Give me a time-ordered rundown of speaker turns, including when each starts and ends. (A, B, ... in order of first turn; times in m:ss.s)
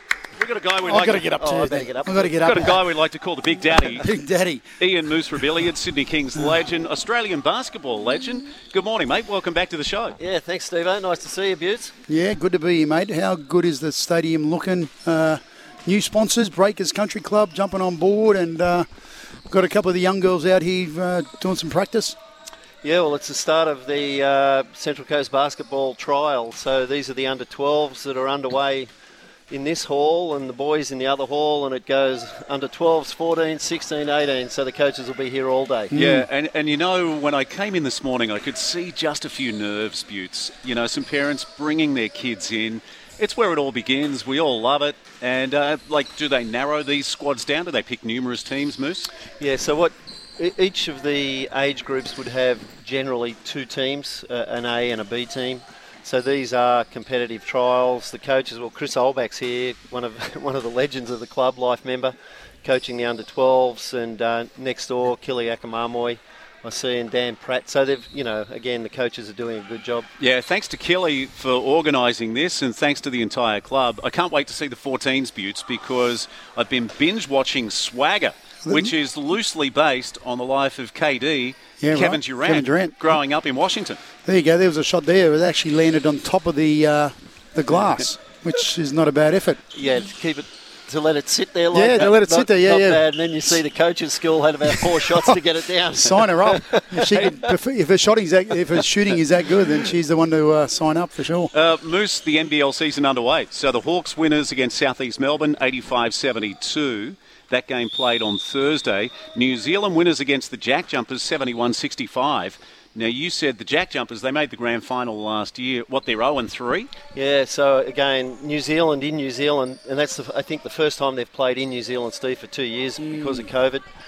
0:00.4-0:01.3 A
0:00.9-0:02.8 B
0:01.4-0:02.4 C
0:02.4-0:04.1 A
0:03.8-0:04.7 B
0:04.8-0:10.2 A
0:10.2-0:11.9 C
0:12.1-0:18.9 B
0:19.5-0:22.2 B
0:22.8-0:28.9 C
0:29.5-0:35.9 C
0:35.9-0:36.3 B
0:35.9-0:49.1 A
0:49.4-1:10.1 C
1:10.2-1:24.0 A
1:18.6-1:18.9 B
1:21.8-1:23.0 B
1:24.2-1:29.6 B
1:29.7-1:37.5 C
1:31.7-1:33.5 B
1:34.7-1:35.4 B
1:36.0-1:41.5 B
1:41.5-1:56.9 A
1:57.1-2:03.9 C